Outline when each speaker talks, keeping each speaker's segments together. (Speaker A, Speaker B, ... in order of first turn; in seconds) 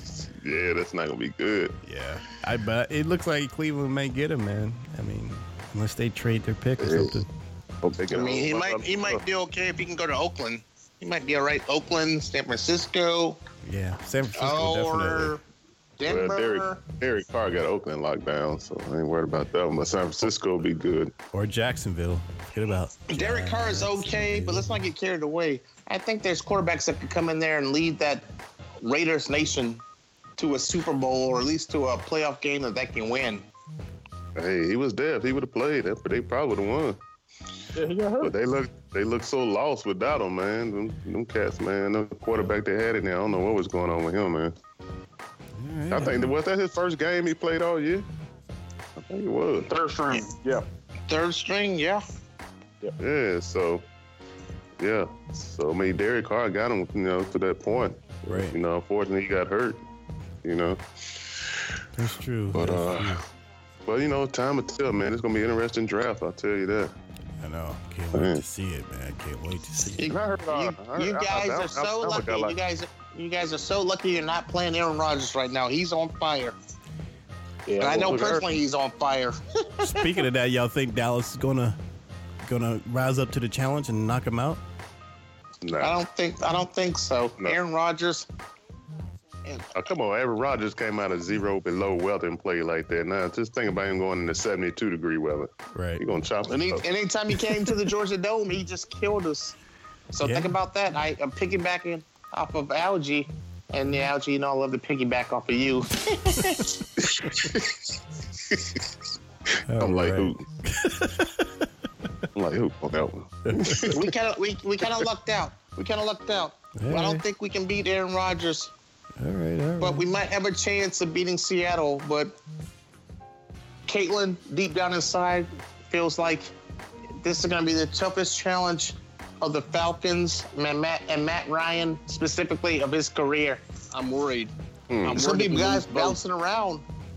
Speaker A: 0.4-1.8, 6.8-7.1, 7.8-9.2, 16.1-21.1, 34.4-37.0, 38.2-44.5, 45.9-48.0, 49.0-49.7, 53.0-53.8, 54.8-59.8, 60.4-60.8, 62.5-63.1, 63.9-66.9, 68.1-68.4, 70.1-72.5, 77.8-78.5, 85.6-86.0, 89.7-96.8, 109.8-110.4, 112.3-114.1, 134.9-135.3
Speaker B: 1.8-7.3, 13.6-15.4, 21.3-24.9, 45.5-46.3, 58.2-58.5, 61.9-63.2, 67.4-70.1, 79.8-81.8, 82.4-84.6, 95.7-96.0, 100.2-100.5, 109.7-111.5, 113.5-114.0, 116.8-117.2, 119.2-120.0
Speaker C: 8.1-13.4, 14.4-15.4, 16.0-16.8, 23.1-28.2, 28.8-29.8, 30.4-33.5, 51.1-52.0, 70.0-76.5, 77.8-80.2, 85.8-88.2, 89.4-89.7, 96.5-99.5, 100.1-106.7, 113.9-118.7, 119.8-122.4, 123.9-126.5, 127.2-133.6, 135.0-136.8
Speaker D: 37.8-38.3, 49.7-50.7, 77.7-78.1, 135.2-136.2